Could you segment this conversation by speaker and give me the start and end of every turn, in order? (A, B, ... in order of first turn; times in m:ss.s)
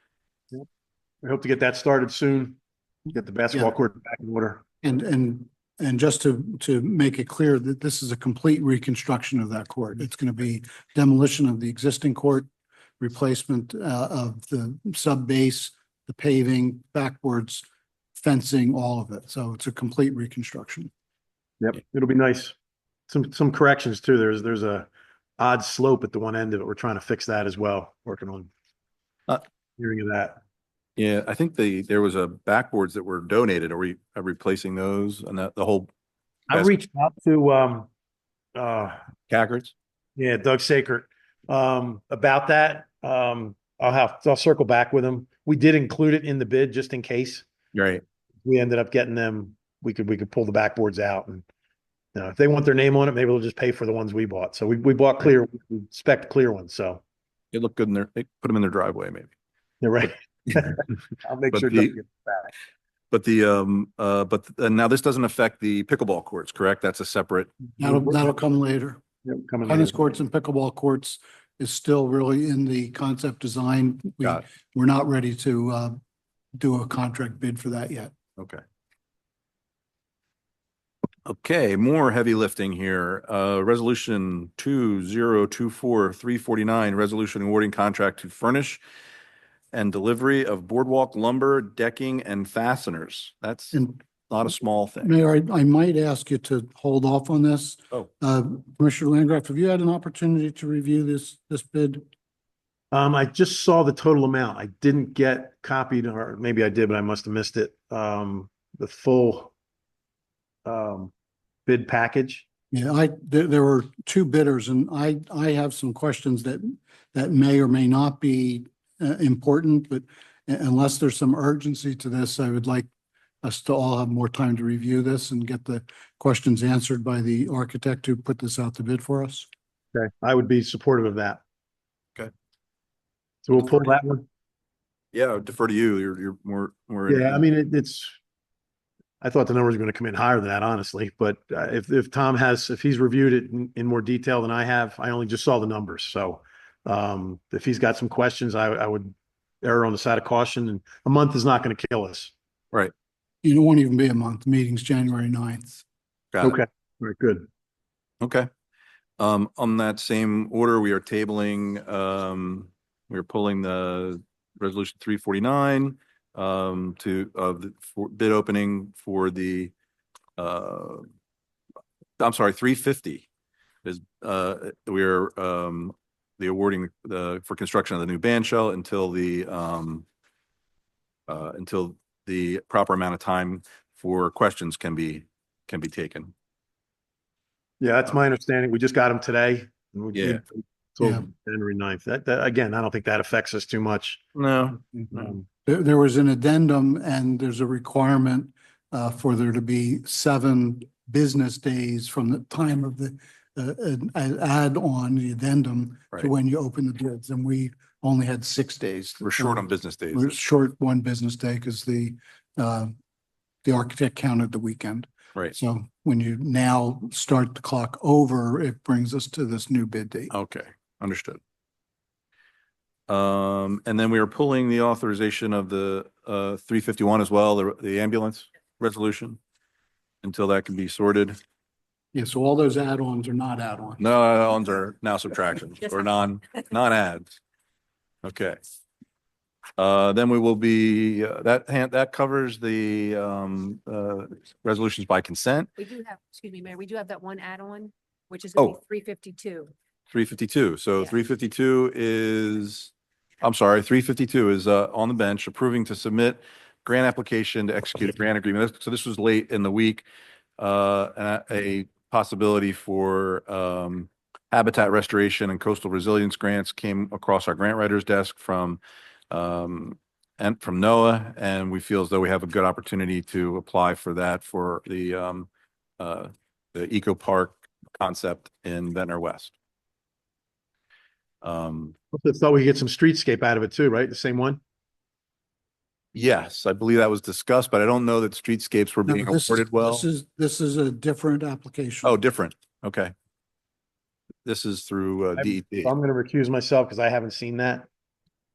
0:01.2-0:02.6 A
0:03.1-0:04.6 A
0:04.8-0:12.5 B
0:13.0-0:20.9 B
0:21.6-0:22.5 A
0:23.1-0:28.5 A
0:29.8-0:30.4 A
0:31.0-0:35.9 C
0:36.5-0:37.9 A
0:38.5-0:39.0 A
0:39.3-0:39.7 C
0:40.2-0:47.4 A
0:47.7-0:48.0 C
0:48.4-0:51.4 A
0:52.1-0:57.0 A
0:57.5-0:59.3 C
0:59.8-1:02.4 A
1:01.5-1:01.9 C
1:03.1-1:07.5 C
1:07.8-1:09.0 B
1:09.2-1:09.9 A
1:09.6-1:16.0 B
1:16.6-1:18.1 B
1:18.4-1:18.6 C
1:21.2-1:28.8 C
1:29.7-1:33.8 C
1:33.7-1:34.0 B
1:34.3-1:35.2 C
1:35.0-1:42.0 B
1:42.9-1:49.5 A
1:50.6-1:51.1 A
1:51.6-1:52.4 A
1:52.7-2:02.9 B
2:03.4-2:09.5 B
2:09.9-2:11.4 A
2:13.4-2:14.2 A
2:15.1-2:17.4 C
2:17.1-2:18.1 A
2:19.2-2:32.3 A
2:33.4-2:35.8 B
2:36.3-2:36.6 C
2:36.4-2:37.4 A
2:38.2-2:38.5 C
2:39.2-2:49.7 C
2:50.4-2:51.0 C
2:52.2-2:53.3 C
2:53.8-3:00.0 C
3:01.3-3:06.3 C
3:07.8-3:14.2 A
3:10.1-3:10.4 C
3:14.3-3:14.8 C
3:15.2-3:32.9 B
3:29.2-3:30.3 C
3:33.6-3:40.3 B
3:40.3-3:41.4 C
3:43.1-3:49.4 C
3:50.2-3:51.4 C
3:52.1-3:54.0 B
3:54.0-3:57.4 C
3:58.2-3:58.6 C
3:59.8-4:05.7 C
4:05.8-4:09.7 D
4:10.1-4:12.9 C
4:13.4-4:20.0 C
4:20.6-4:28.8 C
4:29.3-4:35.5 C
4:36.0-4:39.5 C
4:41.4-4:41.9 C
4:42.2-4:44.6 A
4:46.1-4:50.0 C
4:49.0-4:52.2 B
4:52.0-4:53.1 C
4:54.4-4:55.9 C
4:55.8-4:57.9 A